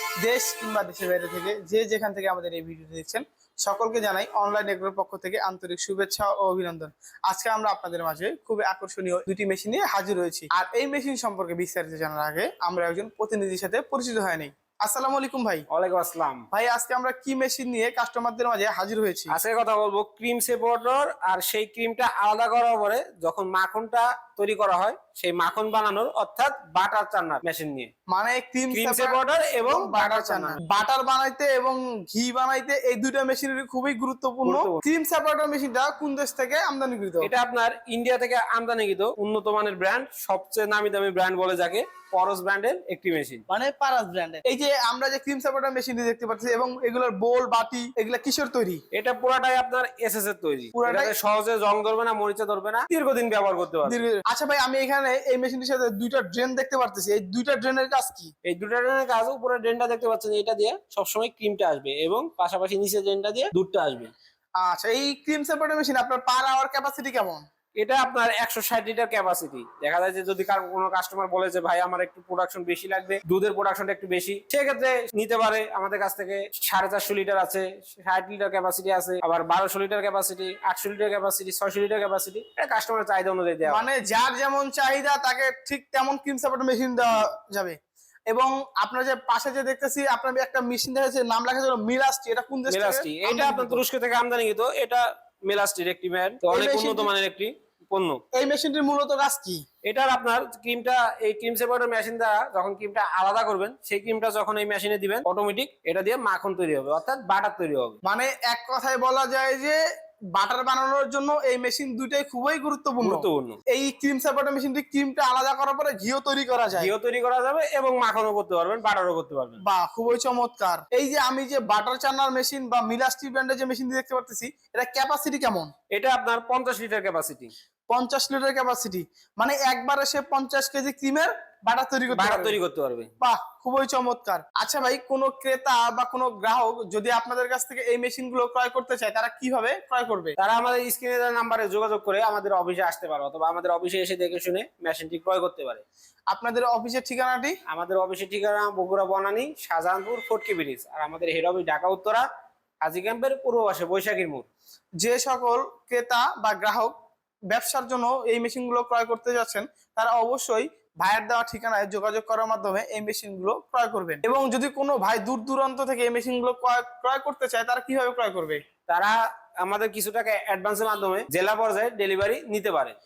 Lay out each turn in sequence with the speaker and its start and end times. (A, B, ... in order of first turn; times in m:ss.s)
0:00.2-0:15.7 A
0:15.7-0:16.5 B
0:16.5-0:19.4 A
0:19.3-0:27.9 B
0:28.1-0:29.2 A
0:28.7-0:30.6 B
0:29.7-0:37.3 A
0:34.4-0:34.8 B
0:37.2-0:43.4 B
0:43.5-0:48.8 A
0:48.9-0:54.0 B
0:50.7-0:51.1 A
0:53.9-0:58.3 A
0:58.4-1:04.1 B
1:04.6-1:07.4 A
1:07.8-1:23.9 B
1:23.7-1:27.8 A
1:28.3-1:33.8 A
1:32.7-1:38.2 B
1:36.5-1:37.1 A
1:38.3-1:39.6 A
1:39.8-1:48.0 B
1:48.0-1:49.8 A
1:50.4-1:56.9 A
1:53.0-1:53.6 B
1:56.8-1:59.6 B
1:59.6-2:05.7 A
2:05.9-2:07.5 B
2:07.9-2:12.6 A
2:12.1-2:13.1 B
2:13.2-2:20.4 A
2:20.4-2:25.8 B
2:26.3-2:27.6 A
2:27.7-2:32.3 B
2:32.8-2:34.5 B
2:35.0-2:36.9 A
2:37.5-2:48.6 A
2:48.9-2:53.0 B